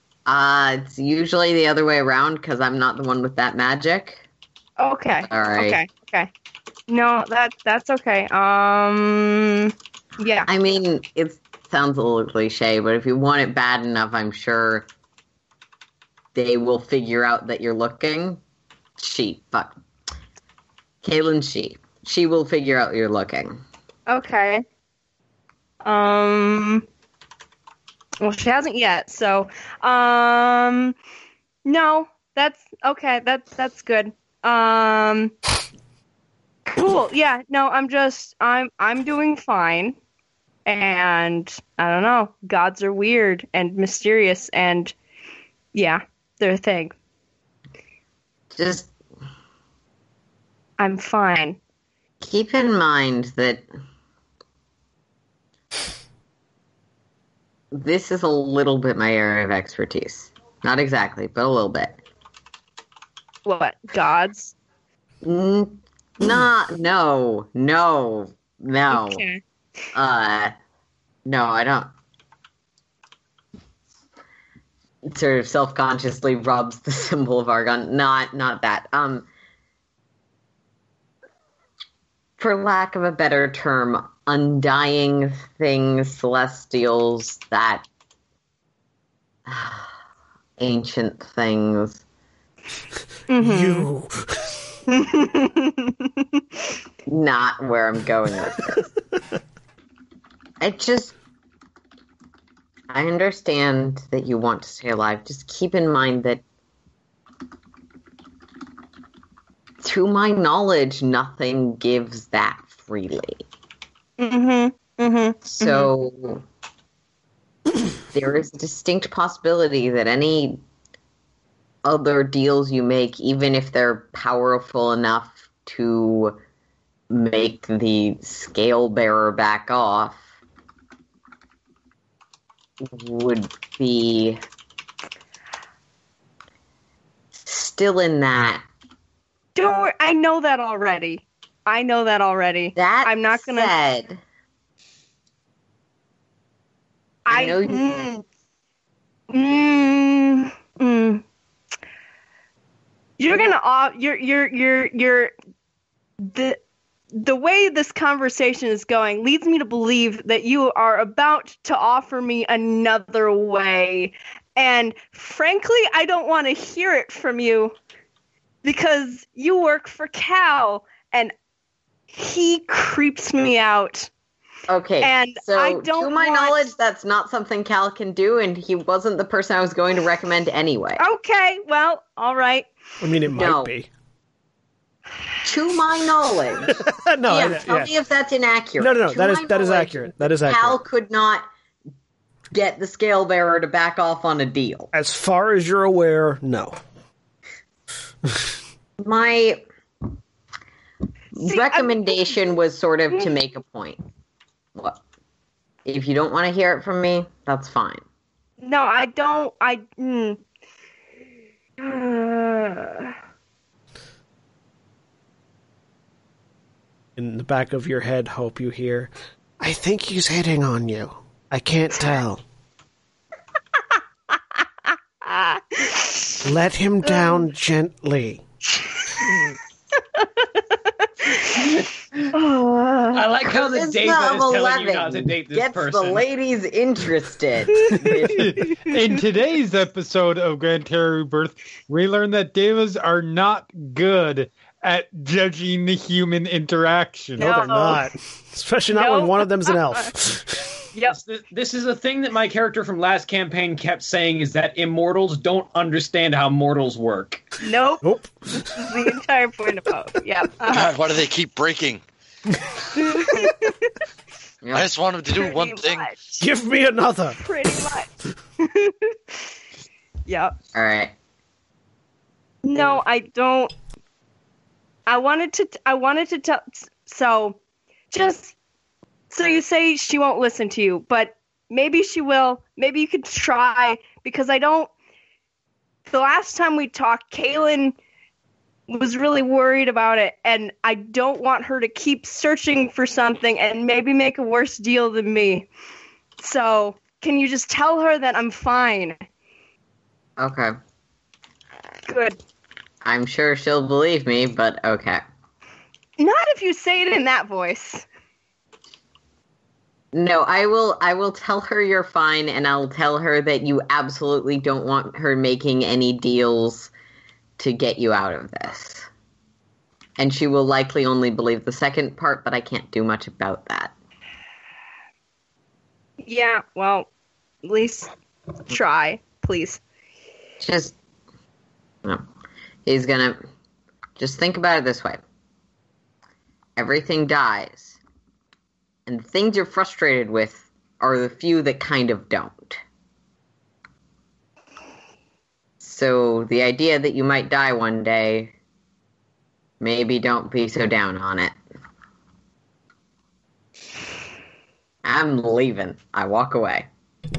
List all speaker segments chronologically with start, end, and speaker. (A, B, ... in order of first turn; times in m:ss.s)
0:00.2-0:04.2 A
0:04.8-0:06.3 B
0:05.2-0:05.8 A
0:06.9-0:10.5 B
0:10.5-0:14.9 A
0:16.3-0:18.4 A
0:19.0-0:19.8 A
0:21.0-0:23.6 A
0:24.1-0:24.6 B
0:25.8-0:26.8 B
0:28.2-0:30.9 B
0:31.6-0:35.3 B
0:36.7-0:40.0 B
0:40.6-0:44.9 B
0:45.7-0:46.9 B
0:48.5-0:48.9 A
0:50.8-0:51.6 B
0:52.2-0:53.6 A
0:57.7-1:02.0 A
1:03.4-1:04.5 B
1:05.2-1:09.2 A
1:08.9-1:09.4 B
1:09.9-1:10.5 A
1:11.2-1:11.9 A
1:15.1-1:19.3 A
1:22.4-1:27.8 A
1:29.5-1:29.9 A
1:30.6-1:32.0 A
1:33.3-1:33.9 B
1:33.4-1:34.5 C
1:34.9-1:36.0 B
1:37.1-1:38.9 A
1:40.6-1:41.1 A
1:42.9-1:46.4 A
1:49.8-1:53.4 A
1:54.2-1:55.9 B
1:55.4-1:56.4 A
1:58.1-2:00.6 A
2:01.8-2:06.4 A
2:07.1-2:10.2 A
2:12.8-2:14.4 A
2:17.4-2:18.6 A
2:19.6-2:23.7 B
2:22.8-2:24.2 A
2:27.2-2:28.2 B
2:27.3-2:27.8 A
2:29.3-2:31.2 B
2:33.2-2:35.3 B
2:36.2-2:36.6 B
2:37.1-2:47.7 B
2:48.6-2:51.3 B
2:52.1-2:54.1 B
2:54.7-3:01.0 A
2:55.0-2:56.7 B
3:01.0-3:02.7 B
3:03.0-3:03.9 C
3:03.3-3:03.7 A
3:05.4-3:11.4 A
3:06.7-3:07.9 C
3:08.8-3:10.8 C
3:12.5-3:14.9 A
3:14.9-3:16.8 C
3:19.0-3:19.6 A
3:21.3-3:24.0 A
3:21.4-3:22.3 B
3:25.8-3:28.0 A
3:28.6-3:30.4 B
3:31.8-3:33.1 B
3:37.2-3:42.4 C
3:45.2-3:46.4 B
3:46.4-3:48.4 C
3:47.0-3:47.4 B
3:51.2-3:51.6 B
3:52.3-3:53.3 B
3:53.1-3:56.2 D
3:53.4-3:58.8 A
3:57.8-3:58.1 B
3:58.2-4:07.5 E
4:07.4-4:10.6 C
4:07.4-4:08.0 B
4:08.9-4:10.1 B
4:11.1-4:17.5 D
4:17.6-4:20.9 B
4:18.0-4:18.8 C
4:20.7-4:22.0 F
4:22.9-4:23.9 B
4:24.7-4:26.1 F
4:25.3-4:26.4 B
4:26.4-4:27.4 C
4:27.4-4:28.1 B
4:28.6-4:29.2 B
4:30.3-4:30.5 B
4:30.7-4:31.1 A
4:32.6-4:33.7 B
4:35.1-4:37.6 B
4:38.1-4:38.5 B
4:39.3-4:44.9 B
4:46.1-4:47.9 B
4:48.9-4:55.7 B
4:56.4-4:59.2 B
5:00.4-5:00.7 A
5:02.1-5:02.4 B
5:03.0-5:05.2 A
5:06.2-5:08.0 B
5:10.1-5:16.9 A
5:17.6-5:19.1 A
5:20.2-5:23.9 A
5:26.2-5:27.1 B
5:27.6-5:28.1 B
5:28.7-5:29.8 B
5:30.6-5:30.9 A
5:32.8-5:33.4 A
5:34.2-5:35.2 A
5:36.8-5:38.0 A
5:39.1-5:42.8 A
5:45.8-5:48.5 A
5:49.8-5:51.6 A
5:55.0-5:56.8 A